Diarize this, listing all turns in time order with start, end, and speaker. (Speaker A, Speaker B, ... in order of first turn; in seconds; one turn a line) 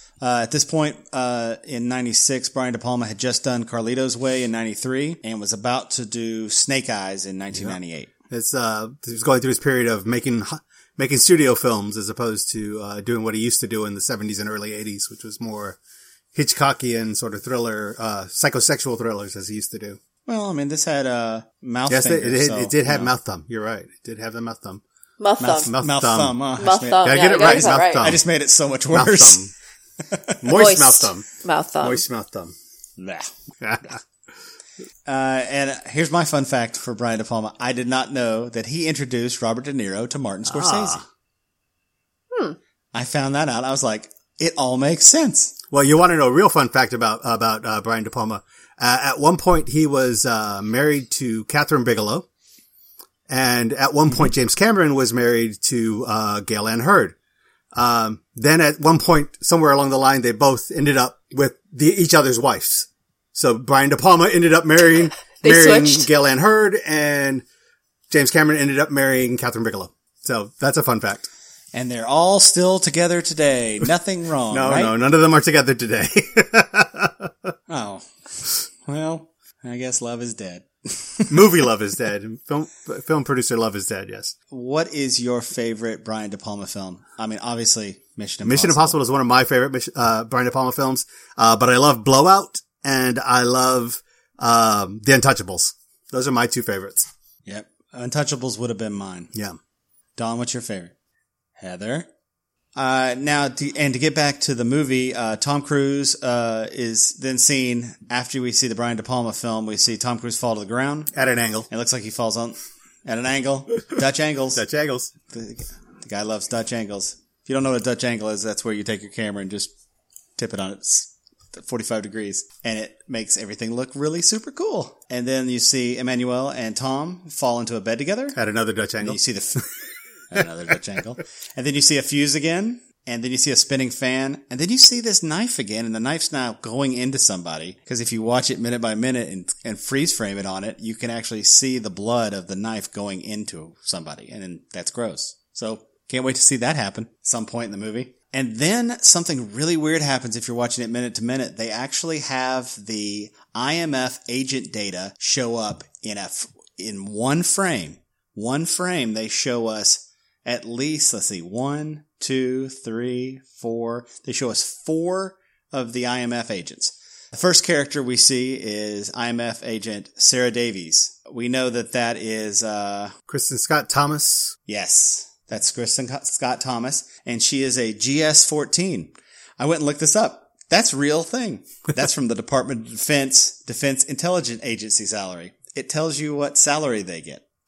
Speaker A: 0.2-8.1
Speaker B: 8.3-15.8
Speaker B: 16.3-20.0
Speaker A: 20.2-23.1
Speaker B: 21.9-24.8
Speaker C: 25.2-25.7
Speaker A: 25.4-29.5
Speaker B: 25.6-26.4
Speaker C: 26.6-28.2
Speaker B: 27.0-28.2
Speaker B: 28.9-29.5
Speaker A: 30.1-30.5
Speaker B: 30.4-31.2
Speaker C: 30.5-32.0
Speaker B: 31.8-32.5
Speaker A: 33.0-33.3
Speaker B: 33.6-34.0
Speaker A: 35.0-41.0
Speaker B: 40.5-41.0
Speaker C: 42.3-42.6
Speaker A: 42.9-45.6
Speaker B: 45.7-52.2
Speaker B: 53.3-57.1
Speaker B: 57.7-67.4
Speaker C: 65.4-66.1
Speaker B: 68.1-71.3
Speaker A: 71.7-75.0
Speaker B: 74.5-77.5
Speaker A: 77.7-81.4
Speaker B: 81.3-84.3
Speaker A: 84.5-89.0
Speaker B: 88.4-97.1
Speaker A: 97.5-99.3
Speaker A: 100.2-100.9
Speaker A: 101.6-102.1
Speaker A: 102.7-111.1
Speaker B: 111.1-111.7
Speaker A: 111.7-114.6
Speaker B: 114.5-115.1
Speaker A: 115.3-119.7
Speaker A: 120.4-128.4
Speaker B: 128.3-129.2
Speaker A: 129.0-129.7
Speaker A: 130.3-173.1
Speaker B: 173.3-174.5
Speaker A: 174.7-187.4